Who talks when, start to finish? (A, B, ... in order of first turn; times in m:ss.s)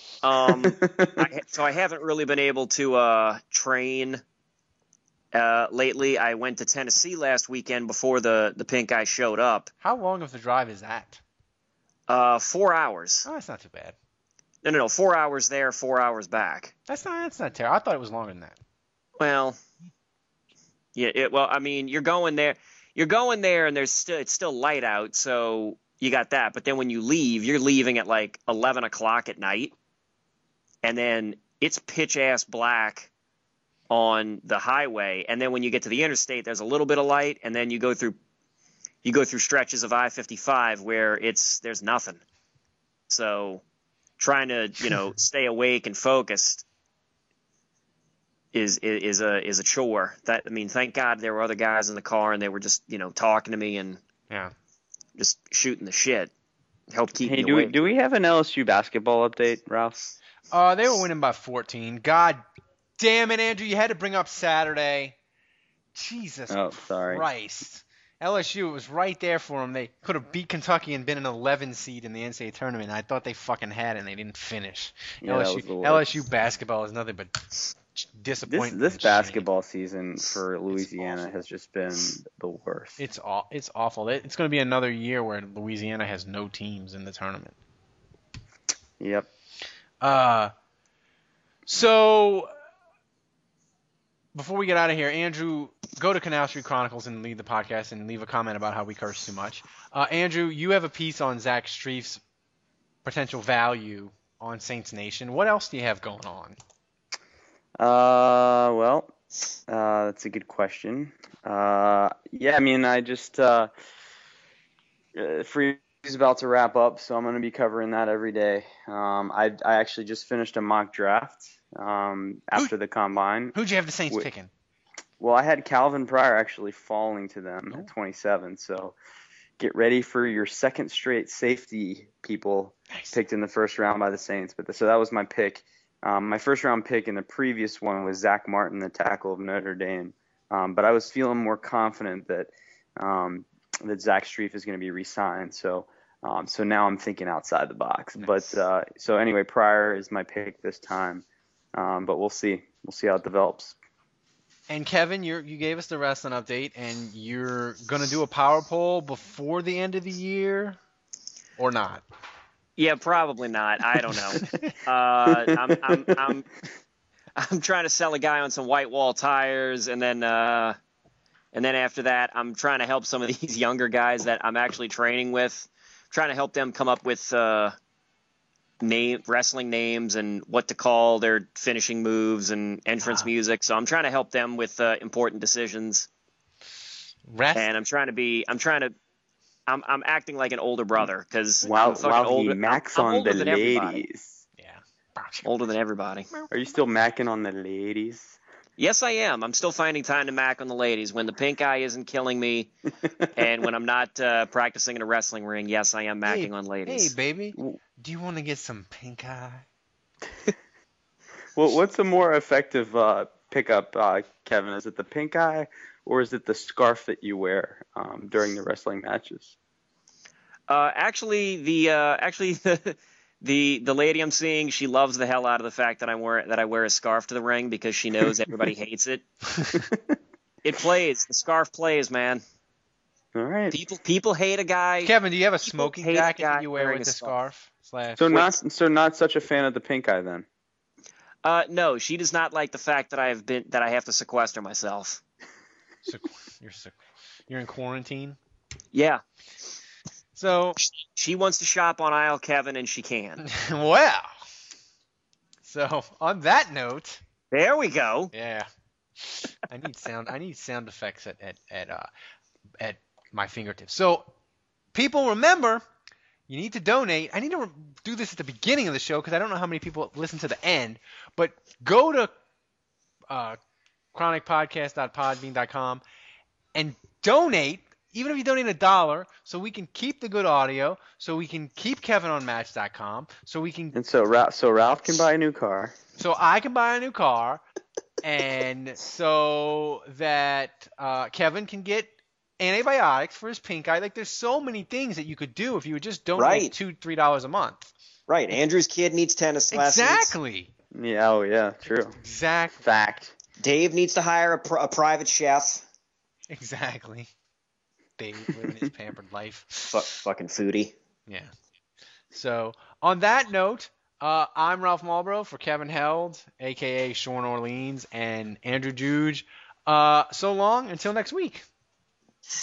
0:00.2-0:04.2 A
0:00.6-0:01.3 B
0:05.3-0:09.7 A
0:09.8-0:11.2 C
0:12.1-0:13.3 A
0:13.2-0:14.0 C
0:14.6-0:16.7 A
0:16.9-0:18.6 C
0:19.2-0:19.6 A
0:21.0-0:29.8 A
0:30.8-0:33.1 A
0:33.9-0:38.2 A
0:39.0-0:42.2 A
0:43.1-0:43.6 A
0:44.2-0:46.6 A
0:48.5-0:54.0 A
0:55.2-0:56.3 A
0:56.9-0:57.7 A
0:57.2-1:00.1 B
1:00.5-1:02.4 C
1:03.0-1:05.2 C
1:06.0-1:19.4 C
1:06.5-1:07.3 B
1:15.2-1:16.1 B
1:18.5-1:23.0 B
1:20.7-1:21.2 C
1:23.0-1:27.6 C
1:29.0-1:29.3 B
1:30.0-1:30.5 C
1:31.7-1:32.5 C
1:34.4-1:42.2 C
1:43.0-1:46.6 C
1:47.8-1:49.1 B
1:49.7-1:53.7 B
1:55.2-2:03.6 B
2:03.5-2:04.5 C
2:05.2-2:09.0 B
2:09.6-2:33.8 B
2:12.9-2:13.2 C
2:34.7-2:40.8 C
2:41.6-2:42.0 C
2:42.8-2:46.5 A
2:44.4-2:44.7 C
2:45.7-2:46.2 B
2:47.4-2:50.8 A
2:51.5-2:57.8 A
2:58.8-3:06.1 A
3:03.0-3:03.3 C
3:07.3-3:07.6 C
3:07.6-3:08.9 A
3:09.7-3:14.0 A
3:11.6-3:14.4 B
3:14.6-3:15.5 C
3:15.4-3:16.3 A
3:16.5-3:18.4 B
3:18.8-3:22.7 A
3:23.4-3:27.1 A
3:26.2-3:29.6 C
3:31.6-3:39.6 B
3:40.7-3:49.2 A
3:49.5-3:49.8 C
3:49.9-3:50.2 B
3:50.6-3:52.4 A
3:53.4-3:53.8 B
3:53.7-3:55.1 A
3:55.0-3:58.5 C
3:55.6-3:57.3 A
3:58.2-4:00.5 B
4:01.4-4:05.2 A
4:06.1-4:07.0 C
4:07.5-4:08.4 C
4:08.9-4:09.2 A
4:10.4-4:10.8 C
4:11.2-4:13.4 A
4:13.4-4:14.3 C
4:15.6-4:17.2 C
4:17.5-4:18.3 A
4:18.3-4:18.7 C
4:19.2-4:22.1 C
4:22.8-4:24.3 C
4:24.9-4:25.8 C
4:26.5-4:32.3 C
4:33.3-4:33.6 C
4:34.1-4:36.0 C
4:36.8-4:44.0 C
4:43.9-4:46.0 B
4:46.2-4:47.6 C
4:48.2-4:57.9 C
4:56.4-4:56.7 A
4:58.3-5:00.4 A
4:59.7-5:00.7 C
5:00.9-5:02.2 B
5:02.2-5:02.8 C
5:02.8-5:03.3 B
5:03.6-5:05.8 A
5:06.5-5:07.3 C
5:08.2-5:10.0 C
5:09.9-5:10.9 A
5:12.3-5:21.6 C